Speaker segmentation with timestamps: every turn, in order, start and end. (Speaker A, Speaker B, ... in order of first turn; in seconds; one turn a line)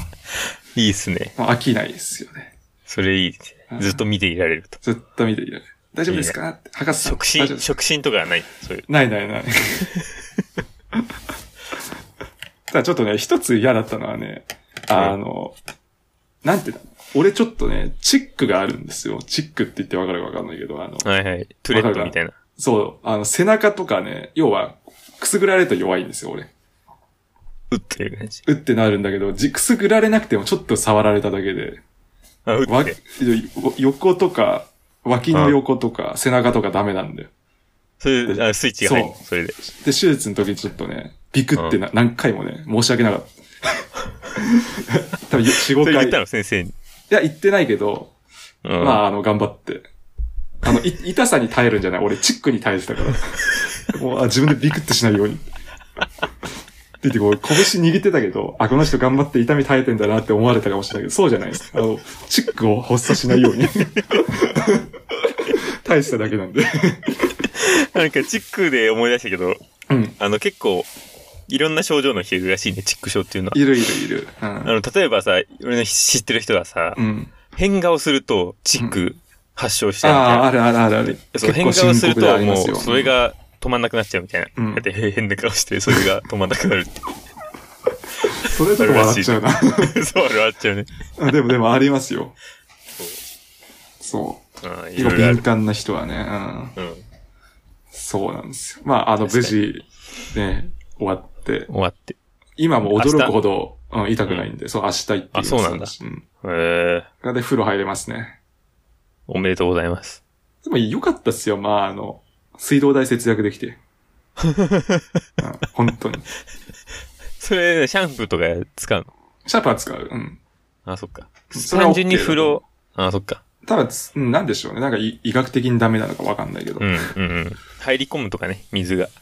Speaker A: 0.8-1.3
Speaker B: 1.4-2.5
Speaker A: 2.9-4.8
Speaker B: 3.7-4.0
Speaker B: 4.8-7.7
Speaker A: 6.1-6.3
Speaker A: 7.0-8.9
Speaker B: 8.9-9.9
Speaker B: 12.7-15.6
Speaker B: 16.4-21.1
Speaker A: 21.0-22.4
Speaker B: 21.7-26.5
Speaker A: 27.7-28.4
Speaker B: 28.4-31.8
Speaker A: 32.5-33.0
Speaker B: 32.7-37.3
Speaker A: 35.3-35.6
Speaker A: 38.0-39.6
Speaker B: 38.3-46.2
Speaker A: 45.7-46.7
Speaker B: 47.1-48.1
Speaker A: 48.6-49.0
Speaker B: 48.8-49.9
Speaker B: 50.6-55.4
Speaker B: 57.0-64.9
Speaker B: 65.4-67.3
Speaker A: 67.5-69.6
Speaker B: 69.9-70.2
Speaker A: 70.2-70.9
Speaker A: 71.5-73.7
Speaker B: 73.5-74.7
Speaker A: 74.6-77.0
Speaker B: 77.0-77.3
Speaker A: 77.5-80.5
Speaker B: 80.0-83.1
Speaker A: 81.3-87.0
Speaker B: 84.6-84.9
Speaker B: 88.4-90.0
Speaker A: 88.8-90.9
Speaker B: 91.2-92.3
Speaker B: 94.0-94.4
Speaker A: 94.6-95.4
Speaker B: 95.0-96.8
Speaker A: 96.8-97.0
Speaker B: 97.9-101.7
Speaker A: 99.2-99.6
Speaker A: 101.7-102.2
Speaker B: 102.6-106.2
Speaker A: 102.9-103.3
Speaker A: 105.3-107.1
Speaker B: 107.2-108.4
Speaker A: 109.3-110.2
Speaker B: 110.6-113.8
Speaker A: 114.4-115.0
Speaker B: 115.4-116.3
Speaker A: 117.4-119.1
Speaker B: 119.5-120.4
Speaker A: 120.9-123.4
Speaker B: 121.5-122.6
Speaker B: 123.7-127.1
Speaker A: 126.8-129.1